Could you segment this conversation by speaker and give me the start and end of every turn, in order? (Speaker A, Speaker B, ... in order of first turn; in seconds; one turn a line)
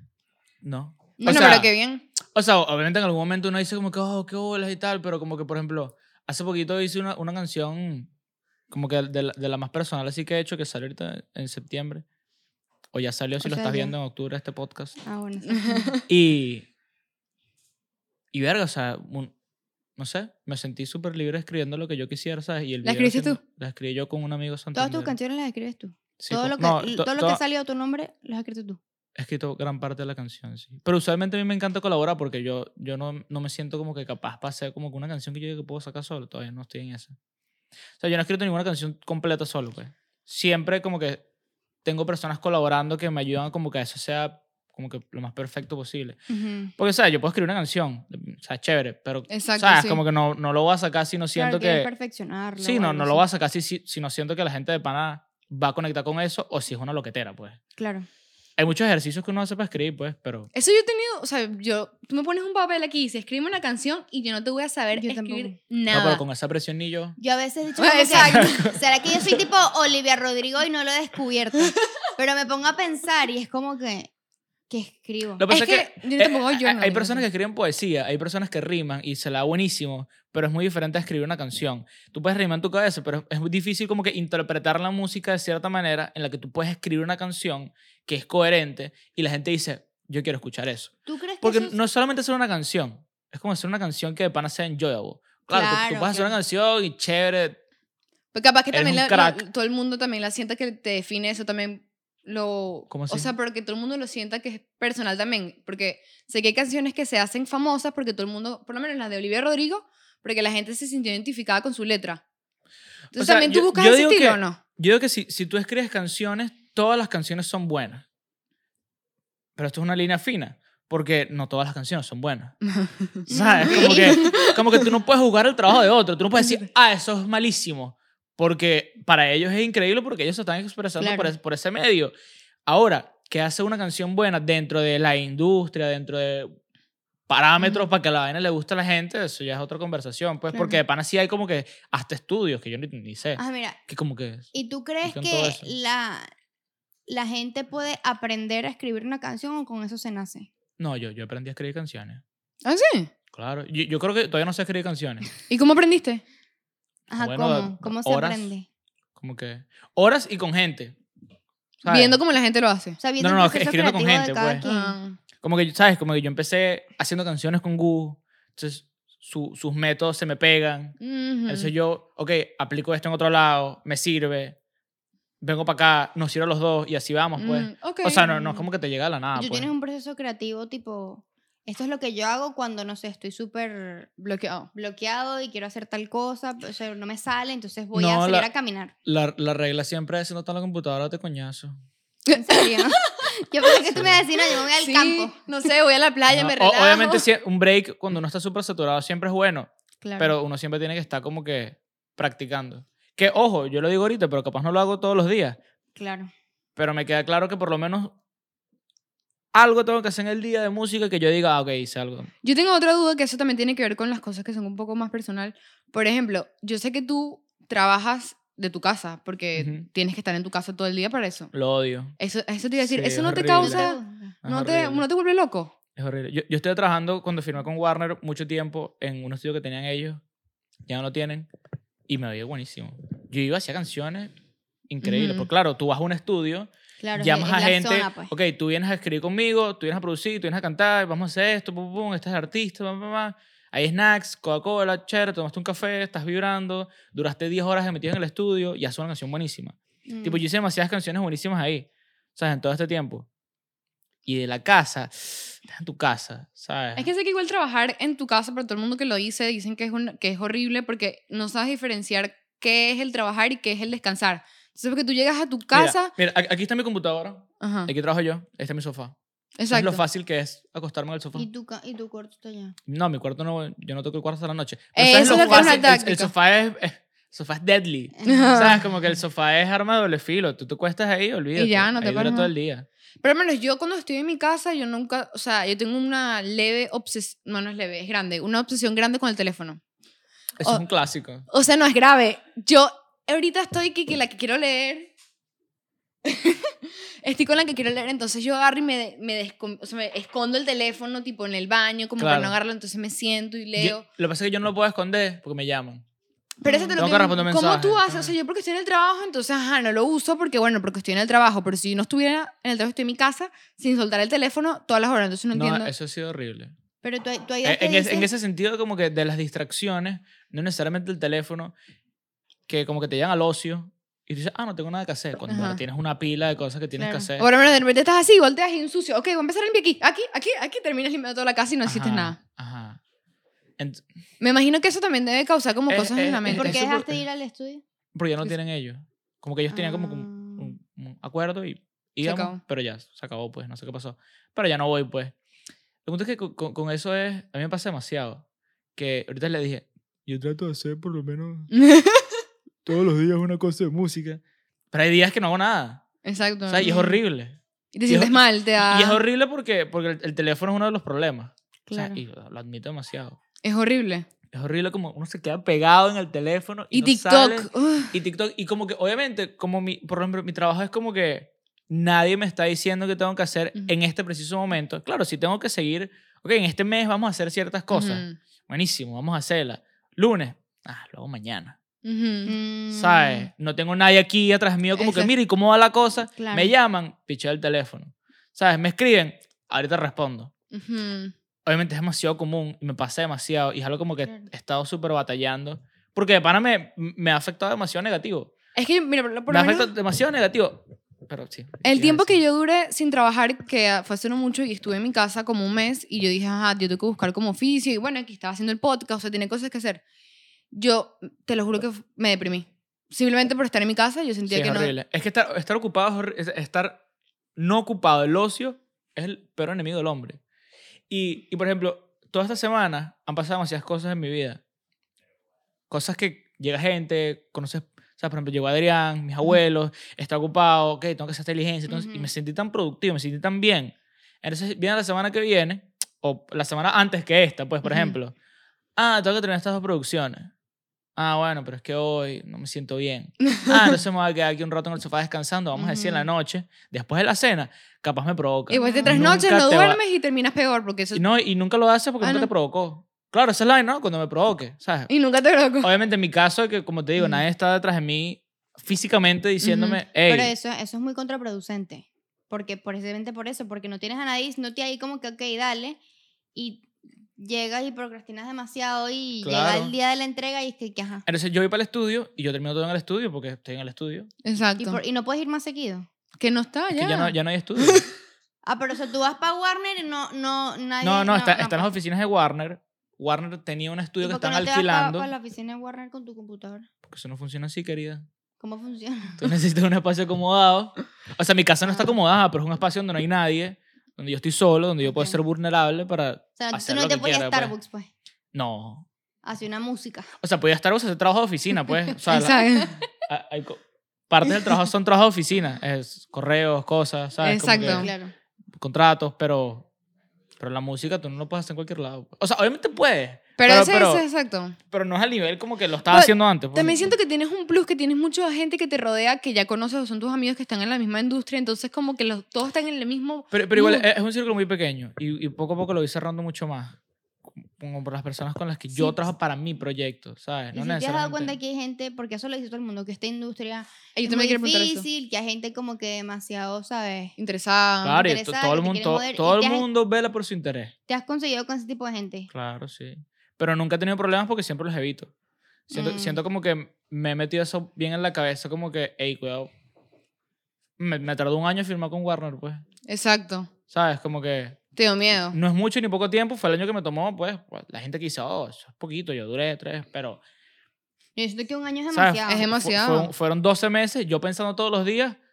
Speaker A: 0.6-1.7
Speaker B: 1.2-1.6
Speaker C: 1.2-2.0
Speaker A: 2.3-8.1
Speaker A: 8.7-12.0
Speaker A: 12.9-15.0
Speaker B: 13.4-13.9
Speaker B: 15.0-15.9
Speaker C: 15.5-16.0
Speaker A: 16.1-16.6
Speaker A: 18.3-19.3
Speaker A: 20.0-25.1
Speaker C: 22.8-23.4
Speaker B: 24.7-28.8
Speaker A: 26.2-27.4
Speaker A: 29.1-37.1
Speaker A: 38.0-41.2
Speaker A: 41.8-46.2
Speaker B: 46.3-46.7
Speaker A: 46.8-51.9
Speaker C: 49.3-50.0
Speaker B: 51.3-53.2
Speaker A: 52.6-57.6
Speaker B: 57.8-58.1
Speaker A: 58.6-60.5
Speaker C: 60.5-66.2
Speaker B: 65.0-65.6
Speaker A: 65.9-67.2
Speaker B: 67.2-74.1
Speaker C: 67.8-68.7
Speaker A: 68.2-68.8
Speaker B: 74.7-75.4
Speaker A: 75.4-97.6
Speaker C: 75.5-77.2
Speaker B: 91.0-91.8
Speaker B: 95.5-96.3
Speaker C: 98.3-112.2
Speaker A: 98.7-99.4
Speaker A: 102.9-103.3
Speaker A: 113.1-118.0
Speaker C: 113.2-114.6
Speaker A: 119.5-122.5
Speaker C: 122.6-124.6
Speaker B: 123.3-124.2
Speaker A: 123.3-132.1
Speaker B: 131.0-131.3
Speaker A: 132.7-136.5
Speaker A: 137.3-144.5
Speaker B: 140.5-140.8
Speaker B: 143.4-143.8
Speaker B: 144.5-146.3
Speaker A: 145.0-145.7
Speaker B: 147.1-150.5
Speaker A: 150.8-152.2
Speaker C: 152.6-153.1
Speaker A: 153.3-155.2
Speaker C: 155.5-156.2
Speaker B: 157.1-158.7
Speaker A: 157.2-158.5
Speaker A: 159.2-161.0
Speaker A: 161.8-162.2
Speaker C: 161.9-163.0
Speaker B: 163.0-165.0
Speaker A: 163.2-164.6
Speaker C: 164.6-165.2
Speaker A: 165.4-170.9
Speaker C: 171.0-171.7
Speaker A: 171.5-174.6
Speaker A: 175.4-179.7
Speaker C: 177.4-178.4
Speaker B: 179.3-184.1
Speaker C: 184.2-184.7
Speaker B: 184.7-188.9
Speaker A: 187.9-188.5
Speaker A: 189.0-191.8
Speaker C: 192.3-193.1
Speaker B: 192.3-195.3
Speaker A: 193.9-194.2
Speaker C: 194.5-197.2
Speaker A: 196.3-205.6
Speaker B: 200.0-200.3
Speaker B: 205.9-206.3
Speaker A: 206.8-208.1
Speaker A: 209.5-212.3
Speaker C: 212.4-221.5
Speaker A: 219.6-219.8
Speaker A: 221.5-222.1
Speaker C: 222.2-225.7
Speaker A: 222.8-223.9
Speaker B: 223.6-224.4
Speaker A: 224.4-225.0
Speaker A: 225.9-230.2
Speaker A: 230.8-231.5
Speaker A: 232.1-234.3
Speaker A: 234.9-253.3
Speaker C: 235.0-235.5
Speaker B: 237.0-238.3
Speaker B: 250.1-250.4
Speaker A: 254.2-257.1
Speaker C: 256.9-266.1
Speaker A: 265.7-269.1
Speaker C: 267.6-267.9
Speaker C: 269.6-270.0
Speaker A: 269.7-271.5
Speaker B: 271.3-272.7
Speaker A: 272.9-282.9
Speaker C: 274.9-276.3
Speaker C: 278.2-278.8
Speaker C: 281.6-282.5
Speaker C: 283.2-289.8
Speaker A: 290.6-291.4
Speaker C: 291.5-295.1
Speaker C: 296.2-304.0
Speaker A: 302.2-302.6
Speaker A: 303.8-306.0
Speaker B: 306.6-307.2
Speaker C: 306.6-315.9
Speaker A: 306.9-308.3
Speaker A: 315.5-316.7
Speaker B: 317.0-318.3
Speaker A: 317.6-321.7
Speaker A: 322.7-327.5
Speaker C: 325.5-325.8
Speaker B: 327.0-327.3
Speaker C: 327.4-332.4
Speaker A: 331.8-333.0
Speaker A: 333.8-334.0
Speaker C: 334.4-336.8
Speaker A: 335.9-337.2
Speaker B: 336.5-337.8
Speaker A: 338.1-345.3
Speaker B: 339.7-340.7
Speaker C: 342.2-342.6
Speaker A: 346.0-348.4
Speaker A: 348.9-351.7
Speaker C: 351.7-352.4
Speaker A: 352.8-354.4
Speaker A: 354.9-356.0
Speaker C: 356.2-357.0
Speaker A: 356.7-363.4
Speaker B: 356.8-357.2
Speaker C: 357.9-359.2
Speaker B: 361.9-362.2
Speaker C: 363.6-364.3
Speaker A: 364.5-381.8
Speaker C: 366.9-368.1
Speaker C: 377.9-378.4
Speaker C: 382.0-382.5
Speaker B: 382.4-383.5
Speaker A: 382.9-390.5
Speaker B: 384.9-385.3
Speaker B: 386.4-386.7
Speaker C: 390.7-391.3
Speaker A: 391.6-398.5
Speaker C: 398.7-399.9
Speaker A: 399.5-402.4
Speaker C: 401.8-410.0
Speaker C: 410.7-414.9
Speaker A: 414.5-417.0
Speaker A: 417.6-420.4
Speaker A: 421.1-424.6
Speaker A: 425.9-438.3
Speaker B: 431.9-432.3
Speaker A: 439.0-440.5
Speaker A: 441.1-450.0
Speaker B: 445.7-446.3
Speaker C: 448.7-451.2
Speaker B: 448.7-449.4
Speaker A: 451.1-455.1
Speaker C: 452.2-452.5
Speaker C: 455.1-455.9
Speaker A: 455.8-460.5
Speaker C: 459.6-460.0
Speaker B: 460.2-466.0
Speaker B: 466.5-471.2
Speaker A: 469.4-469.9
Speaker A: 471.2-474.3
Speaker C: 474.4-475.0
Speaker B: 474.8-476.1
Speaker C: 476.4-478.1
Speaker A: 476.9-478.1
Speaker B: 478.6-481.9
Speaker A: 481.0-485.3
Speaker B: 484.2-486.9
Speaker A: 487.0-488.2
Speaker B: 488.6-489.4
Speaker A: 489.4-497.7
Speaker B: 495.1-495.4
Speaker B: 496.6-498.1
Speaker A: 498.5-499.1
Speaker B: 499.4-500.3
Speaker A: 500.4-508.1
Speaker C: 502.3-503.0
Speaker B: 502.3-502.6
Speaker C: 507.4-508.1
Speaker B: 507.8-508.3
Speaker A: 508.8-509.9
Speaker A: 510.6-514.2
Speaker C: 513.6-514.8
Speaker A: 514.9-517.0
Speaker C: 516.1-524.0
Speaker A: 523.5-527.0
Speaker A: 527.5-531.5
Speaker B: 530.7-537.3
Speaker C: 534.1-535.0
Speaker C: 537.4-538.2
Speaker A: 538.0-540.9
Speaker B: 538.2-539.9
Speaker B: 541.1-542.5
Speaker A: 542.5-545.3
Speaker A: 545.9-549.7
Speaker B: 545.9-546.4
Speaker A: 551.0-552.8
Speaker C: 553.1-553.7
Speaker A: 553.9-554.8
Speaker C: 555.0-555.6
Speaker A: 555.5-560.4
Speaker B: 561.4-562.6
Speaker A: 562.1-565.4
Speaker C: 562.5-563.3